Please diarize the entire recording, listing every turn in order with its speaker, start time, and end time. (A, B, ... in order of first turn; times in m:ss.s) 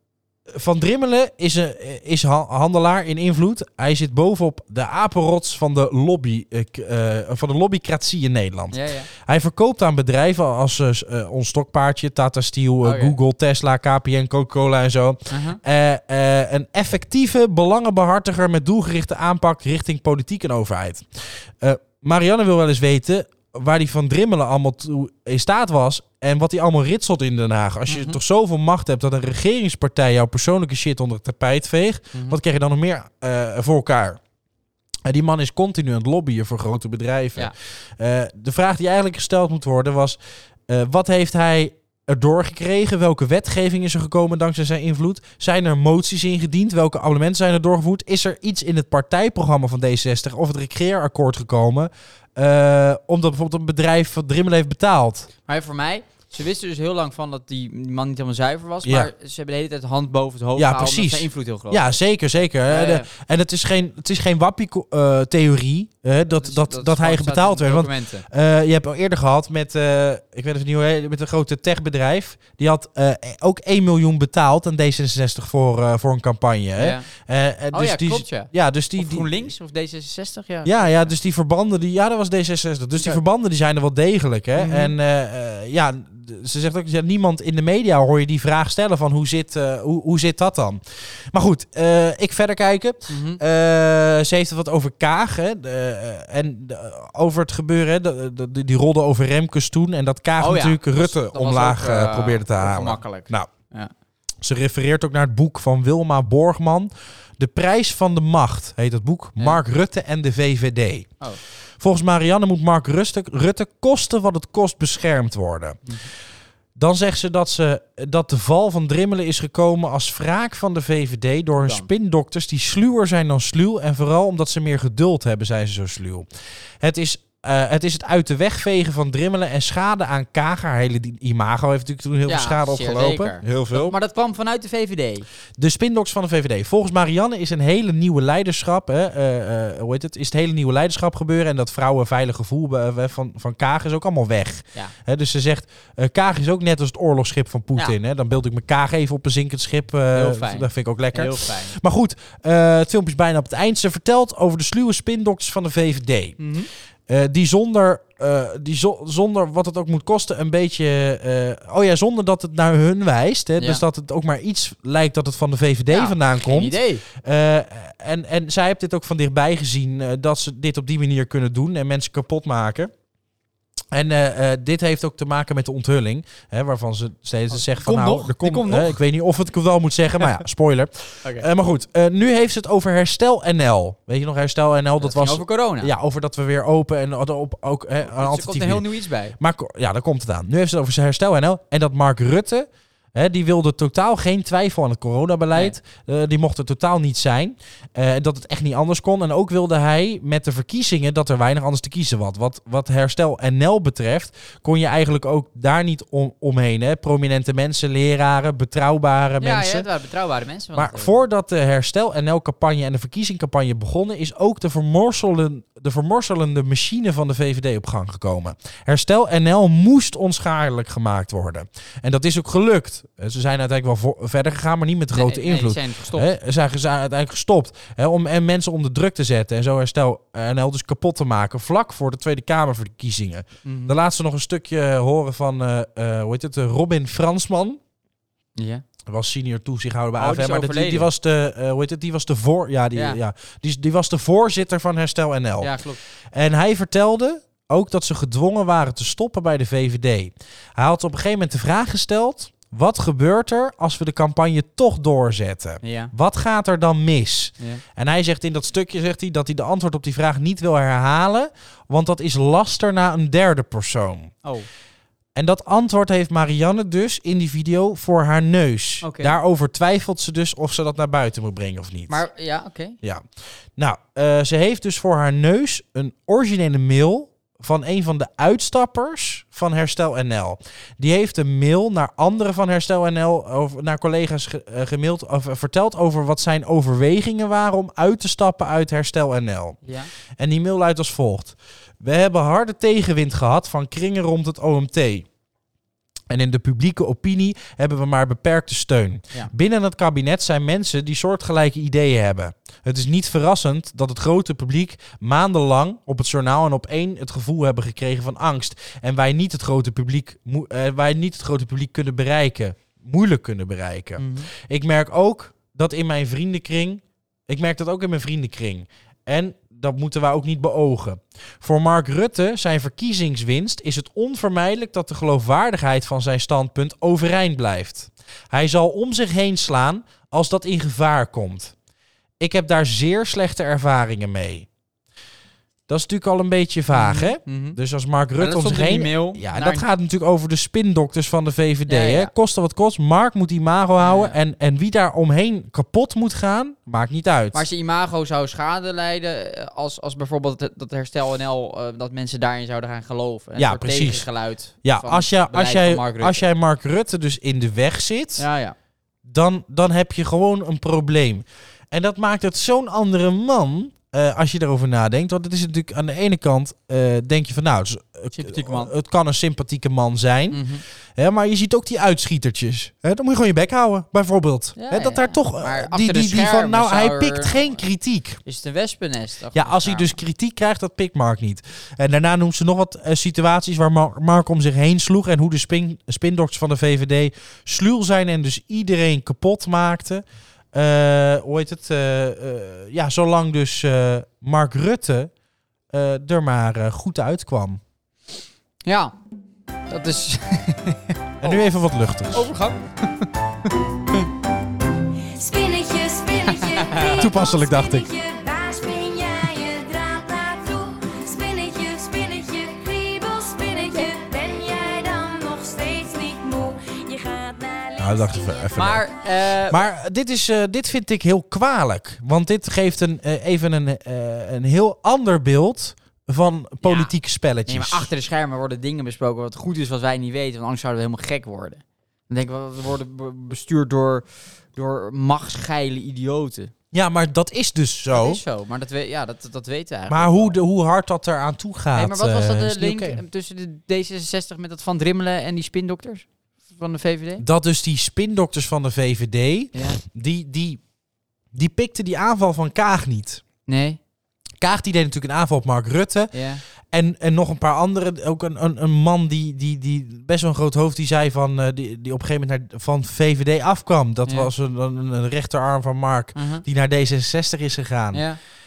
0:00.5-0:34.2 A
0:08.7-0:09.1 B
0:12.8-0:13.1 B
0:15.3-0:15.6 B
0:27.9-0:28.2 B
0:32.1-0:32.4 B
0:35.0-0:55.3 A
0:55.5-1:02.0 B
0:58.8-0:59.1 A
1:00.6-1:19.5 A
1:02.6-1:03.1 B
1:06.3-1:08.2 B
1:16.8-1:17.1 B
1:17.7-1:21.1 B
1:20.6-1:43.5 A
1:24.6-1:24.9 B
1:33.1-1:33.4 B
1:40.4-1:43.9 B
1:44.4-1:51.1 A
1:51.8-1:55.8 A
1:56.8-2:06.3 A
2:01.6-2:01.9 B
2:06.8-2:14.0 A
2:12.3-2:15.3 B
2:15.6-2:36.4 A
2:30.1-2:31.8 B
2:36.4-2:36.7 B
2:37.1-2:52.9 A
2:43.6-2:43.8 B
2:45.9-2:47.0 B
2:53.9-3:08.9 A
2:57.5-2:59.0 B
3:05.0-3:05.9 B
3:08.1-3:09.4 B
3:09.4-3:29.9 A
3:29.4-3:31.2 B
3:30.8-3:57.8 A
3:45.1-3:46.3 B
3:53.6-3:54.0 B
3:58.6-3:58.8 B
3:59.1-4:05.8 A
4:00.2-4:01.1 B
4:02.9-4:03.2 B
4:05.6-4:06.0 B
4:06.3-4:24.3 A
4:15.8-4:16.1 B
4:25.4-4:32.2 A
4:29.0-4:29.4 B
4:32.1-4:33.0 B
4:33.8-4:49.8 A
4:49.8-4:50.1 B
4:50.4-4:55.3 A
4:56.3-5:31.7 A
5:14.2-5:14.5 B
5:32.4-5:34.7 A
5:35.9-5:47.6 A
5:36.9-5:37.8 B
5:38.4-5:39.9 B
5:41.9-5:42.3 B
5:44.0-5:44.4 B
5:47.5-5:56.4 B
5:53.6-5:54.3 A
5:54.8-5:58.5 A
5:58.4-5:58.8 B
5:59.2-6:10.6 A
6:08.3-6:08.9 B
6:10.5-6:10.8 B
6:11.2-6:18.4 A
6:14.8-6:17.8 B
6:18.4-6:20.2 B
6:19.5-6:35.3 A
6:35.9-6:37.8 A
6:38.9-6:39.1 B
6:39.9-6:41.7 B
6:41.4-6:42.5 A
6:42.3-6:43.3 B
6:45.4-6:58.7 C
6:46.8-6:47.2 B
6:47.2-6:48.1 A
6:58.0-6:59.0 A
6:58.8-6:59.8 B
6:59.7-7:08.1 A
7:06.8-7:07.1 B
7:07.7-7:16.7 B
7:16.9-7:18.4 A
7:18.1-7:20.6 B
7:20.1-7:23.2 A
7:22.0-7:27.4 B
7:27.4-7:30.8 A
7:29.7-7:30.0 B
7:31.5-7:33.4 A
7:33.7-7:34.0 B
7:34.6-7:36.3 A
7:36.3-7:36.6 B
7:36.9-7:48.2 A
7:46.4-7:46.6 B
7:48.1-7:48.4 B